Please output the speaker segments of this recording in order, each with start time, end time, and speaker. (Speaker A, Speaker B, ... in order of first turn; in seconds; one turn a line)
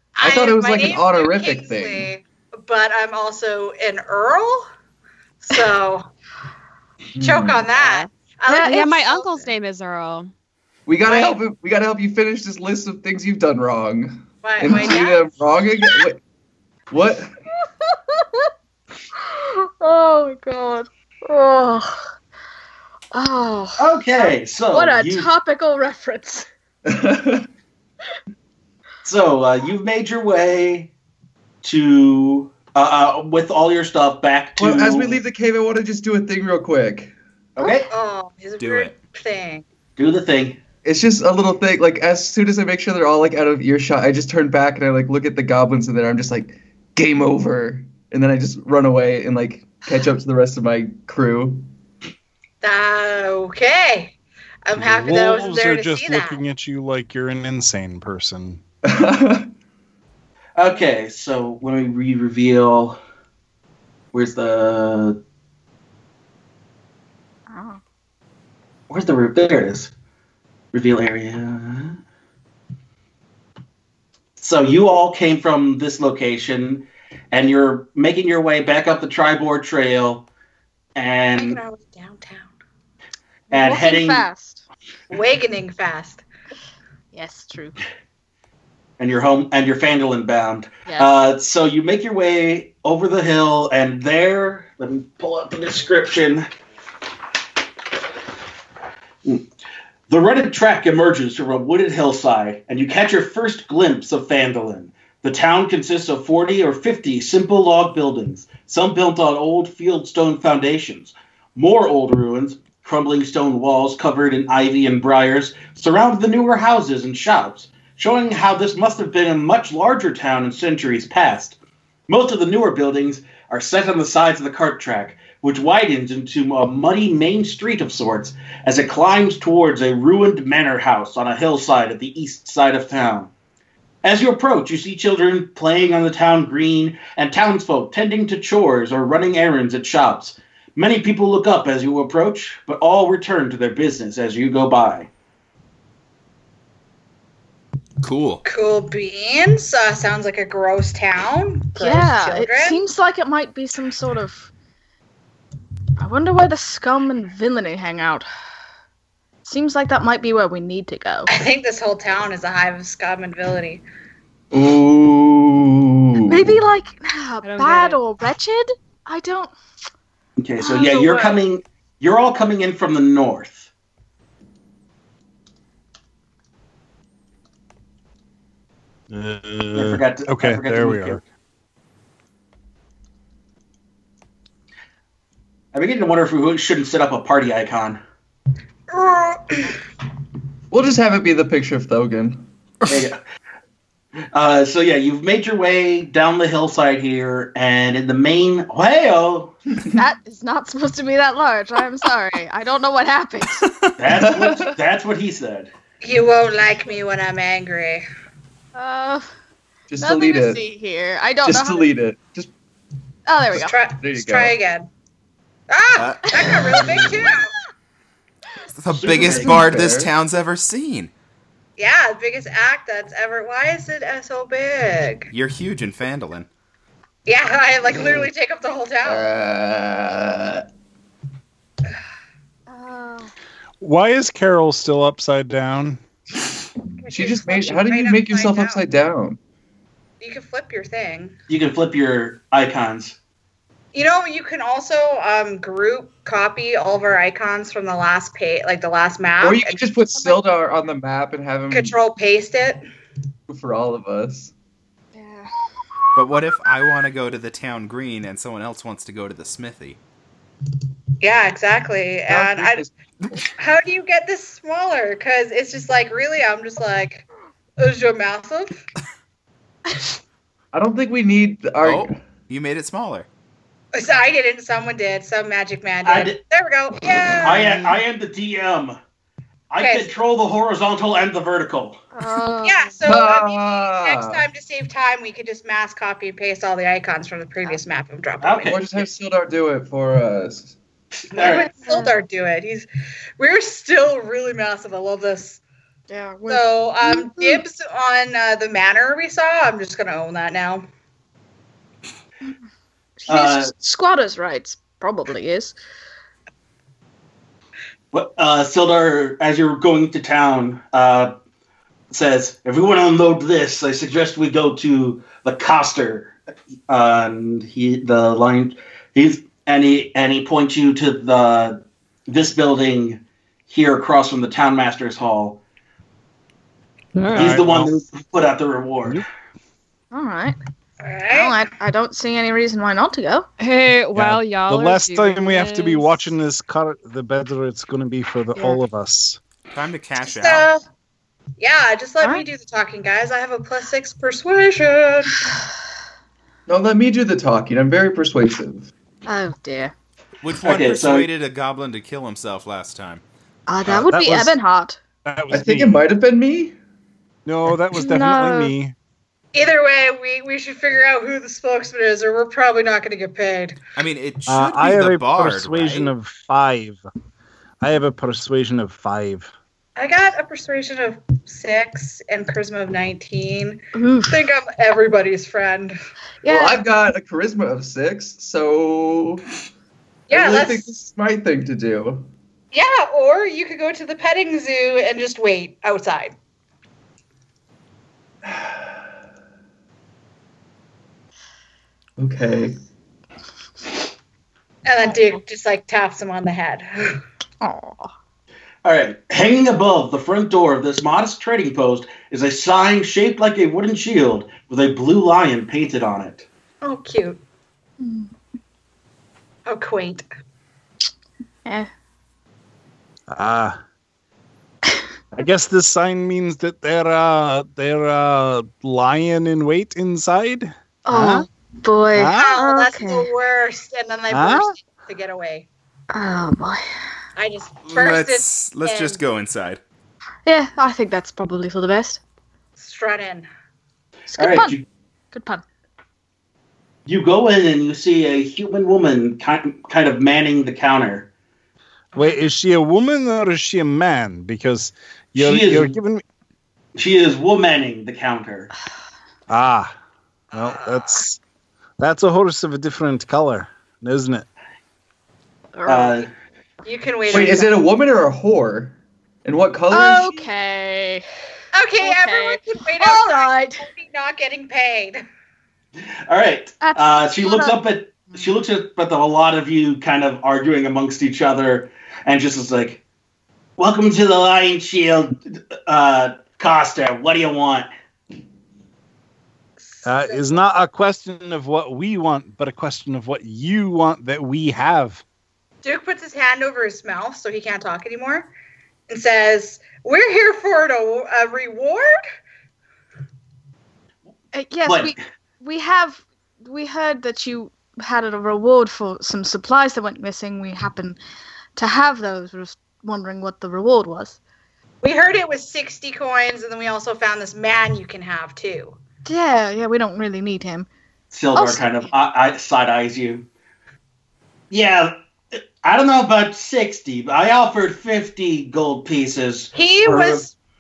Speaker A: 0.2-4.7
Speaker B: 0.2-2.1
Speaker A: 5.4-6.0
Speaker B: 7.2-7.7
Speaker A: 7.2-9.5
Speaker C: 7.8-10.3
Speaker B: 10.9-16.2
Speaker A: 11.1-11.4
Speaker A: 14.4-15.3
Speaker D: 14.7-14.9
Speaker B: 16.9-17.3
Speaker D: 17.8-18.5
Speaker D: 19.2-22.0
Speaker D: 23.1-23.9
Speaker E: 23.8-25.3
Speaker D: 24.7-26.5
Speaker B: 26.9-27.5
Speaker E: 29.0-30.9
Speaker E: 31.6-35.2
Speaker B: 34.6-37.1
Speaker E: 37.6-37.9
Speaker A: 37.9-39.6
Speaker F: 38.6-39.0
Speaker E: 40.0-40.6
Speaker B: 40.8-51.7
Speaker A: 52.6-56.4
Speaker G: 54.8-58.6
Speaker B: 58.9-59.5
Speaker E: 60.6-63.0
Speaker E: 64.1-65.2
Speaker D: 67.5-67.8
Speaker E: 68.9-69.9
Speaker E: 70.7-72.0
Speaker E: 74.4-80.3
Speaker E: 81.0-81.6
Speaker A: 81.4-82.5
Speaker D: 83.5-84.6
Speaker E: 83.5-84.3
Speaker A: 85.1-86.2
Speaker D: 87.1-87.8
Speaker E: 89.0-96.5
Speaker D: 90.9-91.1
Speaker E: 100.1-121.6
Speaker E: 122.1-133.3
Speaker E: 134.0-145.1
Speaker F: 148.0-148.4
Speaker A: 148.4-152.8
Speaker D: 151.8-154.5
Speaker D: 156.0-158.3
Speaker D: 159.4-161.3
Speaker A: 161.3-163.8
Speaker B: 164.5-166.6
Speaker D: 166.3-169.6
Speaker C: 167.4-168.0
Speaker E: 170.4-173.7
Speaker D: 170.6-171.4
Speaker G: 179.1-181.2
Speaker E: 179.7-181.2
Speaker E: 185.7-188.0
Speaker A: 188.9-189.7
Speaker B: 190.7-192.5
Speaker E: 192.9-193.2
Speaker E: 194.3-199.5
Speaker D: 200.0-203.7
Speaker E: 204.0-205.7
Speaker B: 204.1-204.8
Speaker A: 206.0-208.1
Speaker D: 208.8-209.3
Speaker B: 209.9-210.6
Speaker D: 210.0-211.9
Speaker B: 211.4-212.5
Speaker D: 213.3-213.8
Speaker B: 213.5-214.6
Speaker A: 213.6-214.9
Speaker A: 215.7-217.5
Speaker F: 216.0-216.8
Speaker D: 216.3-217.4
Speaker F: 218.8-221.1
Speaker E: 218.9-219.6
Speaker B: 219.2-220.1
Speaker A: 221.8-225.3
Speaker F: 225.3-226.5
Speaker A: 227.3-229.2
Speaker B: 228.0-228.2
Speaker B: 229.1-230.6
Speaker D: 232.7-233.3
Speaker G: 233.8-236.0
Speaker A: 237.0-238.8
Speaker B: 237.1-239.4
Speaker A: 240.2-241.3
Speaker E: 241.5-243.2
Speaker A: 243.9-250.4
Speaker B: 249.4-251.9
Speaker A: 251.7-252.8
Speaker B: 253.5-254.5
Speaker D: 255.2-255.5
Speaker F: 256.1-260.0
Speaker A: 261.2-262.8
Speaker B: 262.3-263.4
Speaker A: 263.6-267.2
Speaker A: 267.8-268.8
Speaker B: 270.7-272.2
Speaker F: 271.8-273.3
Speaker A: 273.9-277.8
Speaker E: 276.0-276.4
Speaker E: 277.4-279.0
Speaker E: 279.7-282.0
Speaker A: 279.8-280.1
Speaker D: 282.1-282.9
Speaker A: 282.6-288.8
Speaker B: 283.1-284.4
Speaker E: 288.4-289.1
Speaker B: 288.7-290.8
Speaker E: 291.3-291.7
Speaker A: 291.4-292.9
Speaker D: 291.4-292.2
Speaker A: 293.4-295.6
Speaker D: 296.1-297.6
Speaker A: 296.5-300.8
Speaker D: 303.2-305.8
Speaker E: 303.3-303.7
Speaker E: 308.1-311.3
Speaker E: 312.1-316.3
Speaker E: 316.9-325.6
Speaker C: 327.2-327.6
Speaker G: 327.2-327.9
Speaker E: 327.3-329.2
Speaker D: 330.1-330.6
Speaker A: 331.0-331.6
Speaker D: 331.3-333.5
Speaker C: 333.6-336.3
Speaker G: 334.1-339.4
Speaker D: 338.6-338.8
Speaker F: 339.7-340.7
Speaker A: 340.2-340.8
Speaker A: 341.6-345.4
Speaker B: 346.7-348.9
Speaker D: 349.3-349.9
Speaker F: 350.4-353.2
Speaker E: 350.6-351.3
Speaker D: 353.7-355.0
Speaker G: 354.1-354.6
Speaker G: 355.2-356.0
Speaker B: 355.5-356.8
Speaker G: 357.5-358.9
Speaker D: 357.9-358.7
Speaker A: 359.5-363.8
Speaker F: 364.0-366.1
Speaker G: 364.5-367.0
Speaker G: 367.8-369.5
Speaker A: 370.0-376.0
Speaker D: 373.9-374.4
Speaker B: 376.4-379.4
Speaker A: 380.3-380.9
Speaker B: 380.3-382.3
Speaker A: 382.7-386.3
Speaker B: 392.2-392.8
Speaker A: 394.9-397.2
Speaker D: 395.0-395.4
Speaker D: 397.6-398.1
Speaker E: 398.8-406.5
Speaker A: 406.8-407.4
Speaker D: 408.0-408.3
Speaker A: 409.7-410.2
Speaker G: 413.3-413.8
Speaker G: 415.3-421.5
Speaker D: 421.1-423.3
Speaker G: 422.1-422.5
Speaker A: 422.4-425.7
Speaker G: 424.3-424.7
Speaker D: 426.1-426.8
Speaker A: 427.4-429.2
Speaker F: 427.9-429.8
Speaker D: 430.5-432.2
Speaker A: 432.8-433.5
Speaker D: 434.3-434.8
Speaker E: 434.4-434.8
Speaker D: 435.3-435.6
Speaker E: 437.1-441.3
Speaker A: 442.1-442.5
Speaker G: 442.1-446.2
Speaker E: 445.4-446.0
Speaker E: 447.0-448.7
Speaker G: 449.5-449.9
Speaker A: 450.5-451.2
Speaker G: 450.5-451.4
Speaker G: 452.0-454.5
Speaker D: 455.8-456.1
Speaker E: 455.9-456.3
Speaker A: 456.9-457.7
Speaker B: 457.3-460.5
Speaker D: 459.9-461.2
Speaker A: 461.7-465.2
Speaker D: 462.0-463.9
Speaker E: 466.3-473.0
Speaker D: 466.8-467.7
Speaker E: 473.8-477.9
Speaker A: 479.9-480.6
Speaker G: 480.1-485.2
Speaker A: 485.8-488.5
Speaker A: 489.1-492.2
Speaker D: 494.5-501.2
Speaker E: 494.9-495.2
Speaker D: 501.8-504.4
Speaker A: 505.0-509.0
Speaker D: 509.2-510.9
Speaker E: 511.3-513.5
Speaker D: 511.6-511.9
Speaker E: 514.7-520.4
Speaker A: 519.8-520.5